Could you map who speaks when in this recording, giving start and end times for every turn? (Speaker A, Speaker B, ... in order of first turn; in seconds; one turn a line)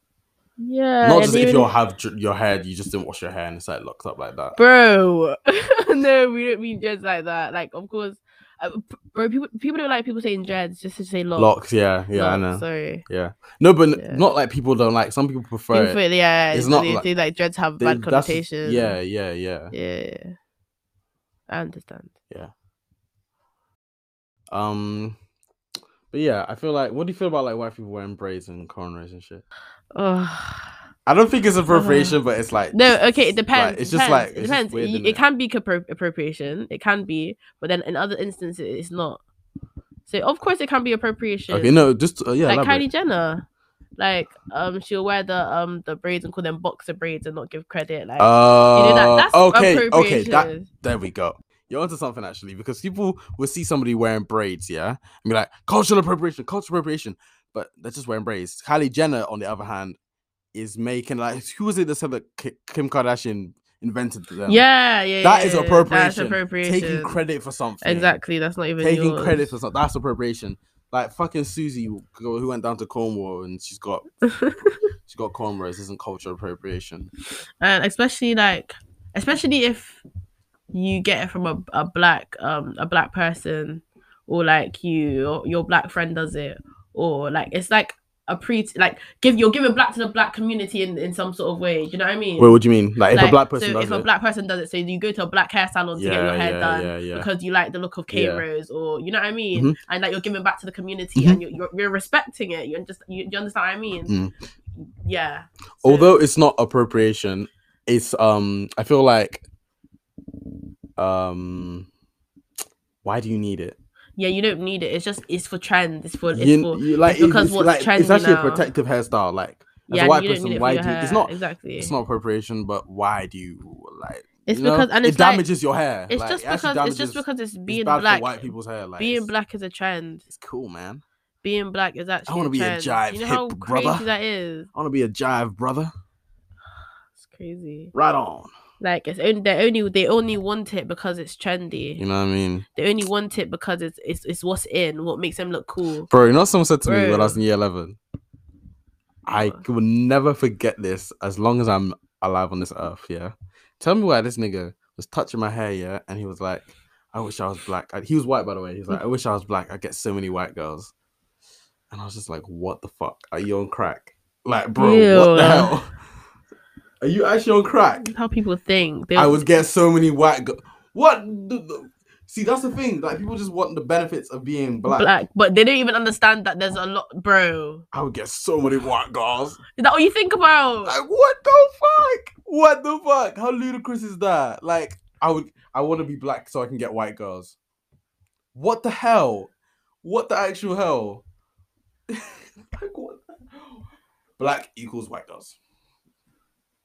Speaker A: 0.6-1.7
Speaker B: 1.0-4.6
Speaker A: 4.6-11.5
Speaker B: 11.4-16.0
Speaker A: 12.1-13.0
Speaker A: 13.9-14.2
Speaker A: 15.7-19.0
Speaker B: 16.5-17.1
Speaker B: 17.8-19.7
Speaker A: 19.7-20.4
Speaker A: 21.5-22.1
Speaker B: 24.5-25.2
Speaker B: 26.1-29.4
Speaker A: 29.9-30.8
Speaker B: 31.1-35.2
Speaker A: 31.7-32.2
Speaker A: 32.7-39.2
Speaker A: 40.0-41.9
Speaker B: 41.5-42.8
Speaker A: 42.4-43.5
Speaker A: 44.0-50.7
Speaker B: 48.2-60.0
Speaker B: 60.5-64.6
Speaker A: 64.5-67.2
Speaker B: 65.2-68.2
Speaker A: 67.8-69.5
Speaker B: 68.8-74.0
Speaker A: 74.3-74.8
Speaker B: 75.0-77.1
Speaker A: 77.6-80.0
Speaker A: 80.7-104.1
Speaker B: 92.4-94.0
Speaker B: 96.0-97.3
Speaker B: 98.1-98.4
Speaker B: 101.2-101.4
Speaker B: 104.1-104.3
Speaker A: 104.8-106.2
Speaker B: 105.8-109.4
Speaker B: 111.0-111.9
Speaker B: 113.0-113.8
Speaker A: 114.2-118.7
Speaker B: 116.3-129.3
Speaker A: 119.9-121.9
Speaker A: 124.5-125.4
Speaker A: 126.1-130.2
Speaker B: 130.3-131.0
Speaker A: 131.4-134.7
Speaker B: 132.3-134.1
Speaker B: 134.7-135.9
Speaker A: 137.2-137.9
Speaker B: 137.9-138.5
Speaker A: 138.8-142.0
Speaker B: 142.0-142.7
Speaker A: 142.7-146.1
Speaker B: 146.1-148.0
Speaker A: 146.8-147.4
Speaker B: 149.2-160.9
Speaker A: 149.3-149.6
Speaker B: 161.9-165.9
Speaker A: 164.8-165.7
Speaker B: 167.0-168.1
Speaker A: 168.0-169.4
Speaker B: 169.2-175.1
Speaker A: 174.9-177.8
Speaker B: 177.9-179.6
Speaker A: 179.8-180.9
Speaker B: 180.8-187.6
Speaker B: 188.5-189.5
Speaker B: 190.0-191.2
Speaker B: 192.1-193.8
Speaker B: 194.4-195.6